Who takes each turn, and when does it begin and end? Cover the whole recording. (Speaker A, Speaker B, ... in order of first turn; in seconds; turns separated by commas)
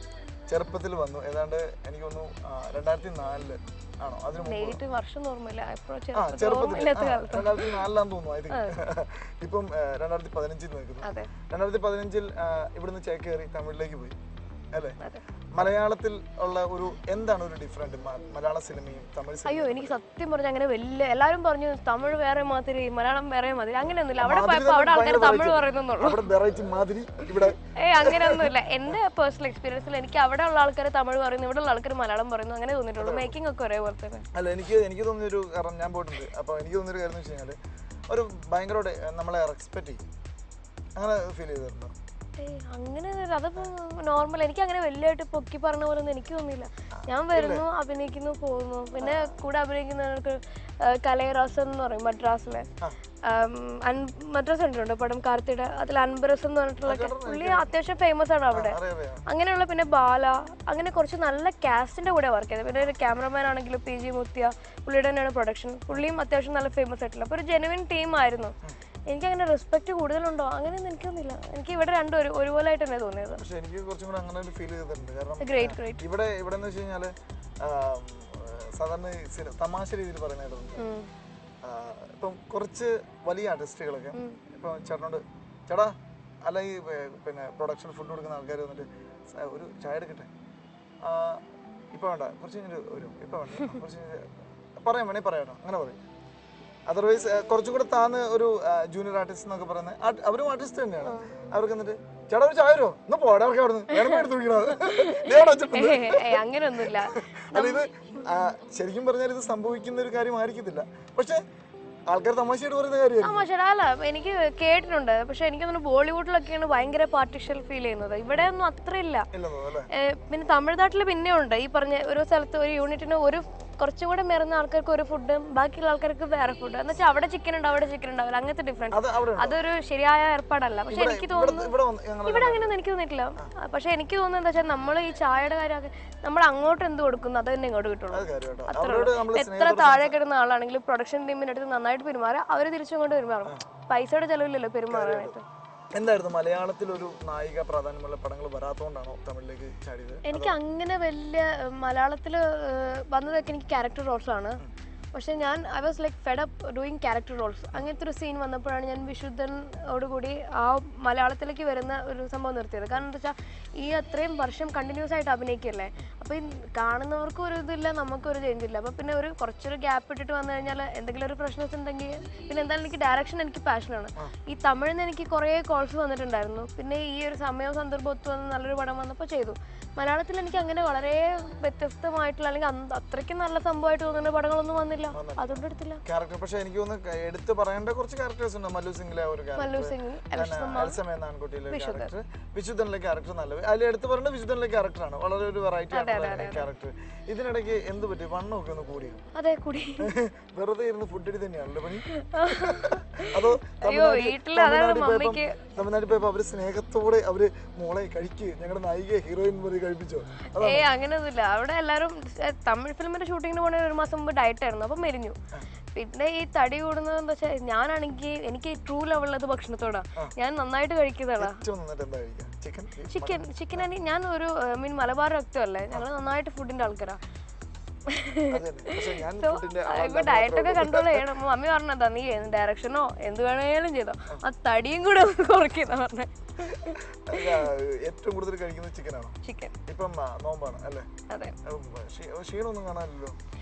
Speaker A: 0.5-4.8, Speaker B: 4.4-7.8, Speaker A: 6.2-14.2, Speaker B: 8.5-8.8, Speaker B: 11.0-11.3, Speaker A: 14.7-15.0, Speaker A: 15.5-19.9, Speaker B: 19.5-26.3, Speaker A: 24.2-28.6, Speaker B: 27.7-34.3, Speaker A: 33.0-33.4, Speaker A: 34.4-37.6, Speaker A: 38.1-40.0, Speaker A: 41.0-41.9, Speaker B: 42.4-52.7, Speaker A: 47.0-47.6, Speaker A: 49.0-49.4, Speaker B: 53.2-68.6, Speaker A: 56.9-57.7, Speaker A: 58.5-59.2, Speaker B: 69.1-73.4, Speaker A: 73.4-80.9, Speaker B: 75.4-76.0, Speaker B: 80.8-81.1, Speaker A: 81.6-90.3, Speaker A: 91.0-91.4, Speaker A: 91.9-96.0, Speaker A: 96.9-111.4, Speaker B: 101.0-101.3, Speaker B: 104.0-107.9, Speaker A: 112.1-113.5, Speaker B: 113.2-119.3, Speaker A: 119.3-119.9, Speaker B: 119.9-131.7, Speaker A: 128.9-129.6, Speaker A: 130.9-132.8, Speaker B: 132.3-145.4, Speaker A: 138.1-140.2, Speaker A: 144.9-145.4, Speaker A: 145.9-150.6, Speaker B: 150.3-154.6, Speaker B: 155.1-186.0, Speaker A: 185.1-199.2, Speaker B: 189.6-191.0, Speaker B: 191.7-192.1, Speaker B: 195.9-196.7, Speaker B: 199.3-200.1, Speaker A: 200.0-210.9, Speaker B: 202.1-205.6, Speaker B: 210.6-215.4, Speaker B: 215.9-221.6, Speaker A: 221.4-223.9, Speaker B: 223.1-227.2, Speaker B: 228.1-237.7, Speaker A: 228.5-231.3, Speaker A: 237.3-239.4, Speaker B: 239.4-239.8, Speaker A: 239.9-241.1, Speaker B: 241.3-241.6, Speaker A: 241.6-243.4